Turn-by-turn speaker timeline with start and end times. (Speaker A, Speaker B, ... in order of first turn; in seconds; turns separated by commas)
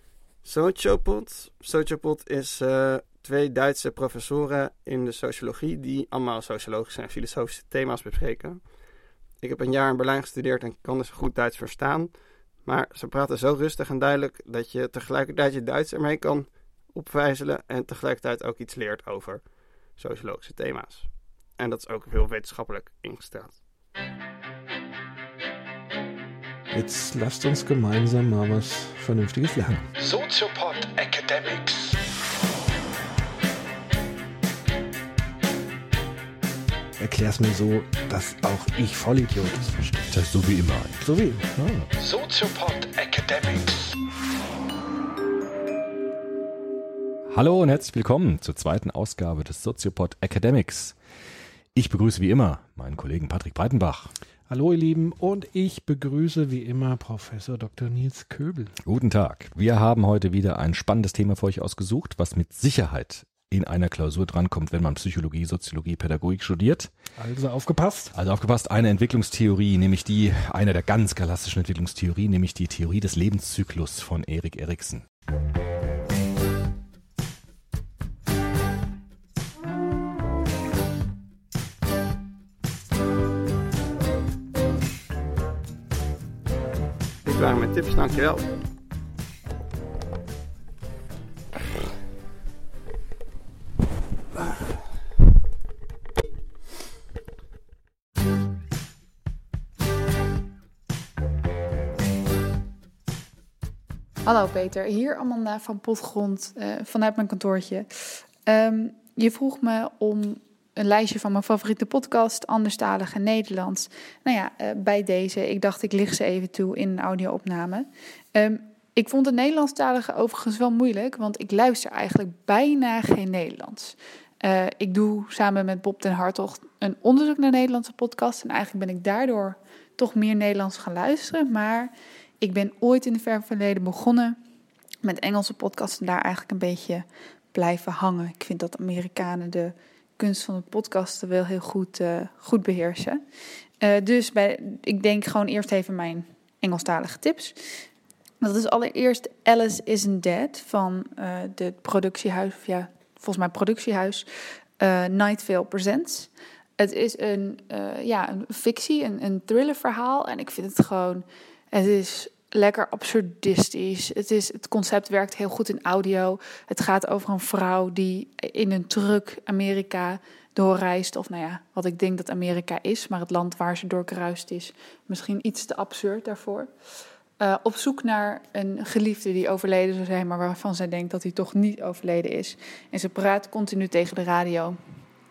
Speaker A: 0.4-8.6, Speaker A: 9.4-12.1, Speaker A: 12.6-19.4, Speaker A: 19.9-23.6, Speaker B: 26.7-29.8, Speaker C: 30.1-31.7, Speaker B: 37.0-40.2, Speaker D: 40.5-40.8, Speaker B: 41.0-41.7, Speaker C: 42.1-42.7, Speaker D: 47.3-51.2, Speaker D: 51.7-54.1, Speaker B: 54.5-58.7, Speaker D: 58.8-67.1, Speaker B: 67.2-68.1, Speaker D: 68.1-75.0, Speaker A: 87.2-88.4, Speaker E: 104.2-107.9, Speaker E: 108.5-134.4, Speaker E: 135.0-143.2, Speaker E: 143.8-147.6, Speaker E: 148.4-154.3, Speaker E: 154.8-176.7, Speaker E: 177.4-184.8